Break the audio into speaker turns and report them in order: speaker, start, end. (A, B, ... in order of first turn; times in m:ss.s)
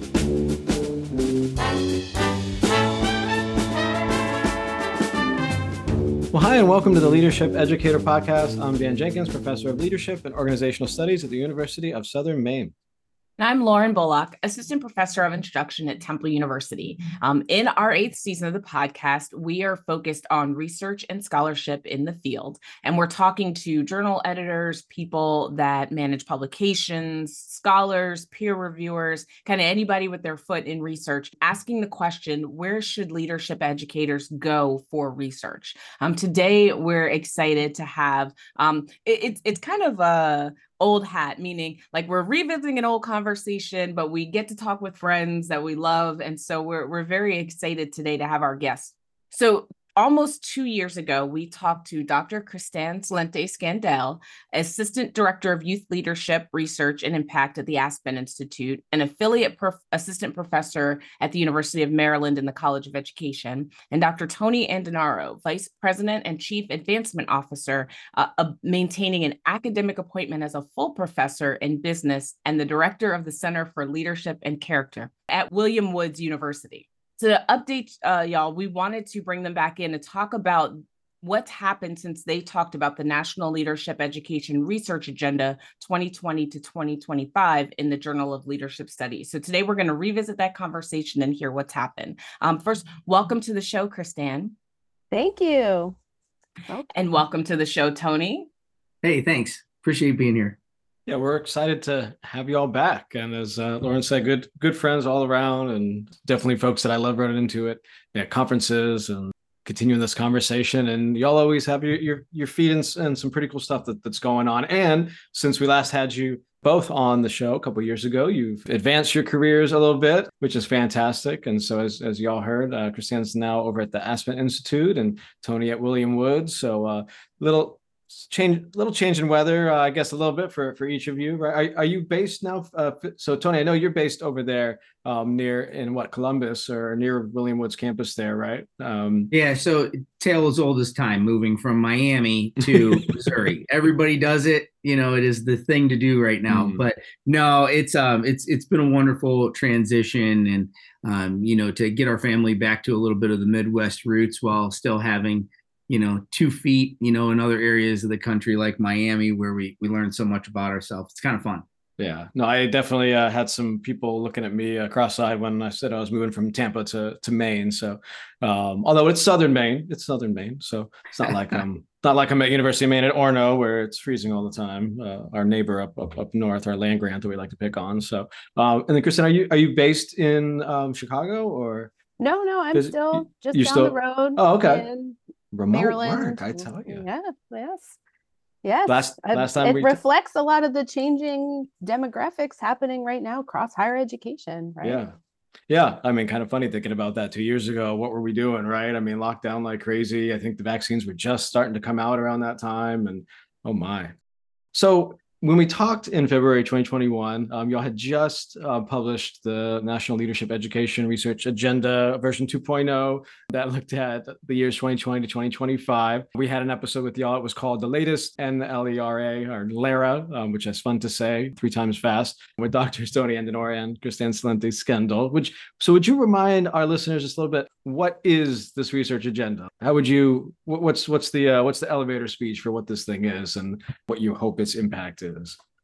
0:06.3-0:12.7 A
0:13.4-1:34.5 B
1:35.1-1:36.0 C
1:36.9-1:38.5 B
1:39.0-1:40.6 D
1:41.1-2:19.3 A
2:19.3-2:41.6 D
2:26.5-2:26.8 A
2:42.0-3:01.9 A
3:02.2-3:05.2 C
3:02.7-3:04.9 A
3:05.5-3:07.0 A
3:05.7-3:08.0 C
3:08.6-3:15.0 C
3:08.9-3:10.0 A
3:14.8-3:15.2 A
3:15.7-3:24.1 A
3:24.7-3:55.6 A